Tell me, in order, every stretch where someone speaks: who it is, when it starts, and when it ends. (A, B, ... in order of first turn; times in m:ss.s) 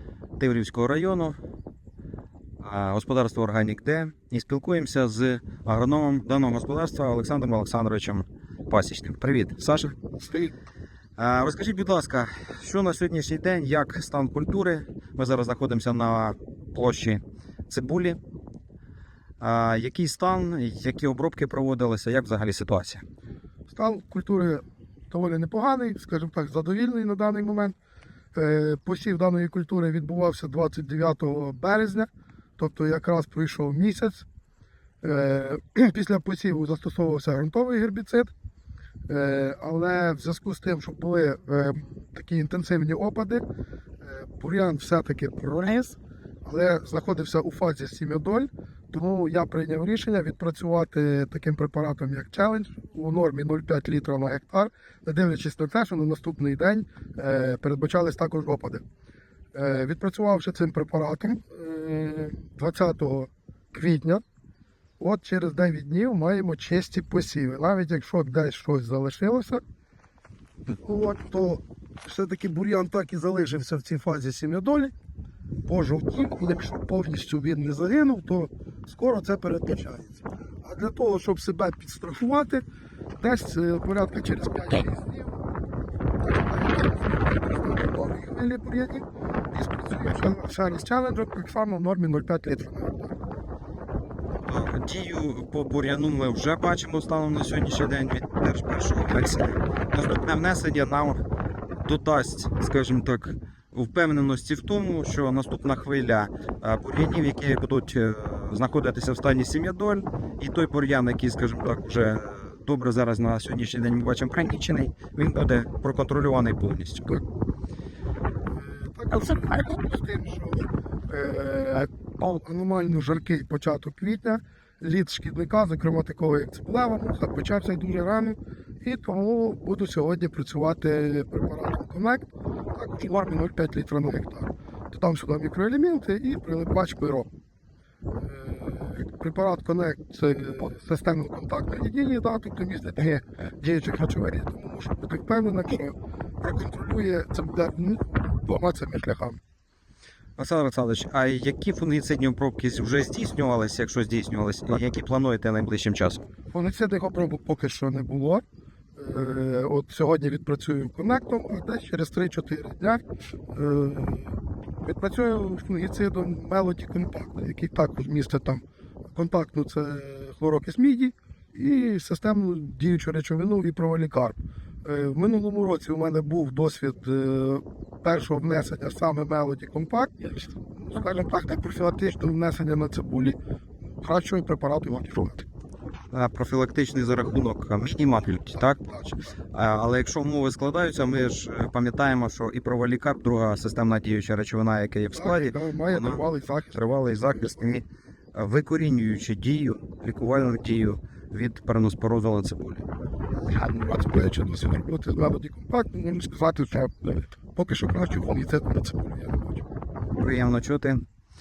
0:00.4-0:01.4 A
0:02.6-0:10.4 A
0:11.2-0:18.2 A
0:19.4-0:23.0 A
0:23.7-0:27.8 B
0:28.3-0:34.2 B
0:35.0-0:38.3 B
0:39.1-0:43.4 B
0:44.0-0:58.8 B
0:59.5-1:04.2 B
1:05.0-1:09.6 B
1:10.7-1:14.9 B
1:15.6-1:22.6 B
1:23.2-1:25.4 B
1:26.2-1:33.1 B
1:34.4-1:41.2 A
1:41.8-1:57.2 A
1:58.5-2:17.3 B
2:18.2-2:29.4 B
2:30.4-2:36.2 A
2:36.5-2:38.4 B
2:39.0-3:05.4 B
3:06.1-3:08.8 A
3:08.6-3:09.2 B
3:09.5-3:22.8 A
3:15.1-3:17.6 B
3:23.5-3:29.6 B
3:30.2-3:31.0 A